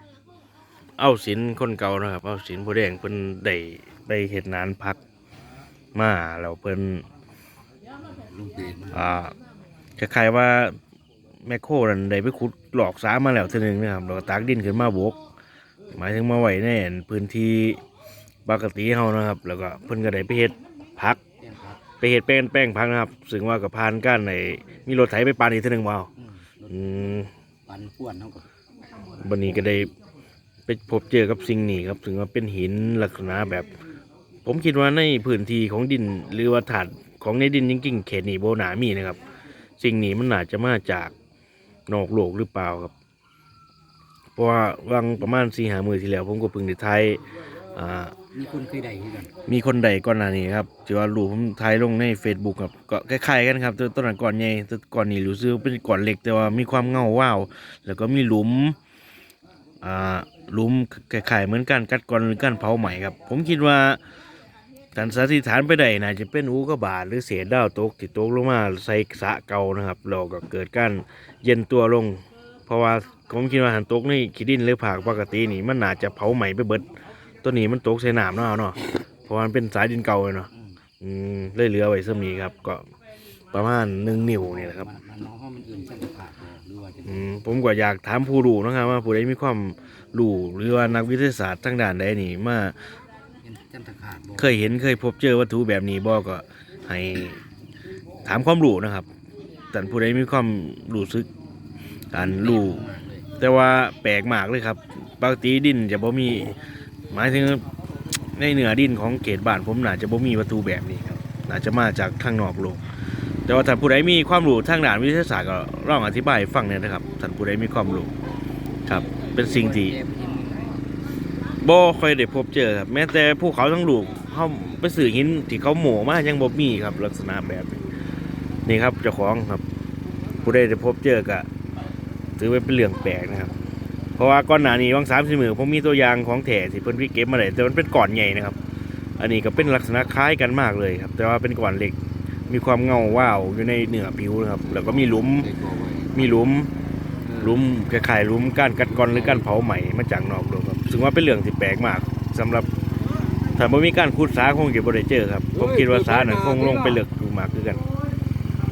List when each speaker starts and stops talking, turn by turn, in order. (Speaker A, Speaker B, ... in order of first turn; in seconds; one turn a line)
Speaker A: 1.0-5.0
Speaker A: 5.9-7.0
Speaker B: 8.0-9.1
Speaker A: 8.9-9.3
Speaker A: 10.0-10.8
Speaker A: 11.4-15.2
Speaker A: 15.9-17.8
Speaker A: 18.4-21.2
Speaker B: 21.4-21.8
Speaker A: 22.0-26.1
Speaker B: 26.2-28.5
Speaker A: 26.7-27.3
Speaker B: 29.1-29.8
Speaker A: 29.2-29.9
Speaker A: 30.7-33.7
Speaker A: 34.4-39.2
Speaker A: 39.8-41.1
Speaker A: 41.9-42.9
Speaker A: 44.4-47.2
Speaker A: 47.7-48.1
Speaker B: 48.3-49.3
Speaker A: 49.5-58.8
Speaker A: 59.8-64.0
Speaker A: 64.9-76.9
Speaker A: 77.4-80.5
Speaker B: 80.5-80.8
Speaker A: 81.0-82.8
Speaker A: 83.5-84.9
Speaker B: 84.3-87.2
Speaker A: 87.0-92.7
Speaker B: 93.4-94.8
Speaker A: 94.4-97.4
Speaker A: 98.2-99.1
Speaker A: 99.7-101.3
Speaker A: 102.1-102.8
Speaker B: 102.1-103.3
Speaker A: 103.4-106.6
Speaker A: 107.1-107.6
Speaker A: 108.3-112.8
Speaker A: 113.5-118.1
Speaker A: 118.8-120.0
Speaker B: 119.3-120.8
Speaker A: 121.6-127.9
Speaker A: 128.7-129.6
Speaker A: 130.4-131.4
Speaker A: 132.4-133.5
Speaker A: 134.2-138.6
Speaker A: 139.2-142.0
Speaker A: 142.5-145.5
Speaker B: 144.6-146.4
Speaker A: 146.1-146.7
Speaker B: 147.2-147.6
Speaker A: 147.4-152.7
Speaker B: 148.8-149.6
Speaker A: 153.6-157.8
Speaker B: 155.5-157.0